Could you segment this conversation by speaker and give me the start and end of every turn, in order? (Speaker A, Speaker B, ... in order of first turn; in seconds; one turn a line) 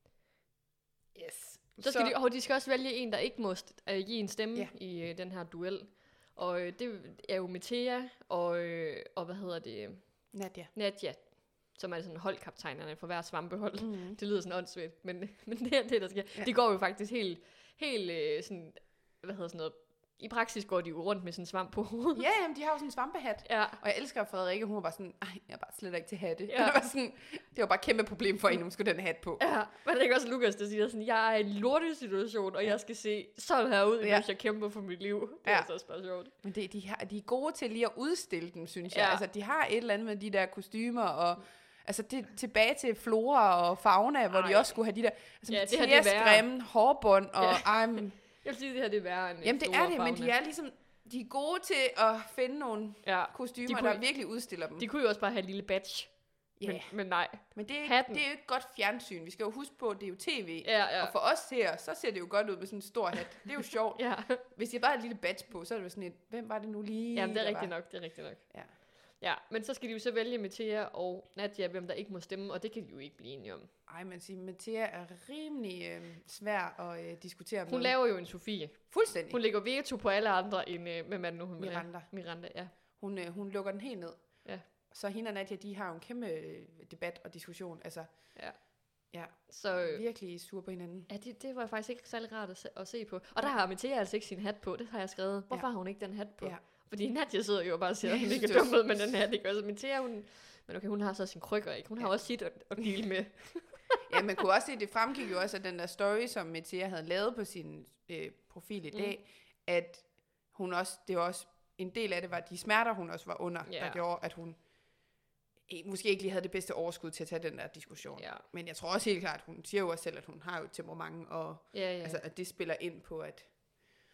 Speaker A: 1.1-2.1
Speaker B: 1.8-22.3
Speaker A: 10.3-10.7
Speaker A: 13.8-14.2
Speaker A: 22.1-29.4
Speaker B: 23.4-23.8
Speaker B: 26.5-26.8
Speaker B: 29.4-36.3
Speaker A: 34.0-34.3
Speaker A: 35.5-35.7
Speaker A: 36.4-48.2
Speaker B: 38.9-39.2
Speaker B: 44.3-44.8
Speaker B: 45.5-46.5
Speaker B: 47.4-50.3
Speaker A: 49.4-54.9
Speaker B: 53.0-54.1
Speaker B: 54.8-58.2
Speaker A: 56.6-67.8
Speaker B: 60.6-61.1
Speaker B: 64.0-64.4
Speaker B: 67.1-73.7
Speaker A: 68.5-68.8
Speaker A: 73.9-78.0
Speaker B: 77.7-82.7
Speaker A: 78.9-79.4
Speaker A: 81.6-82.1
Speaker A: 82.9-88.3
Speaker B: 88.3-88.7
Speaker A: 89.1-91.1
Speaker B: 89.5-90.0
Speaker B: 91.1-104.0
Speaker A: 98.0-99.1
Speaker A: 104.1-114.6
Speaker B: 113.7-114.0
Speaker A: 115.7-123.5
Speaker B: 118.2-118.4
Speaker B: 121.7-122.2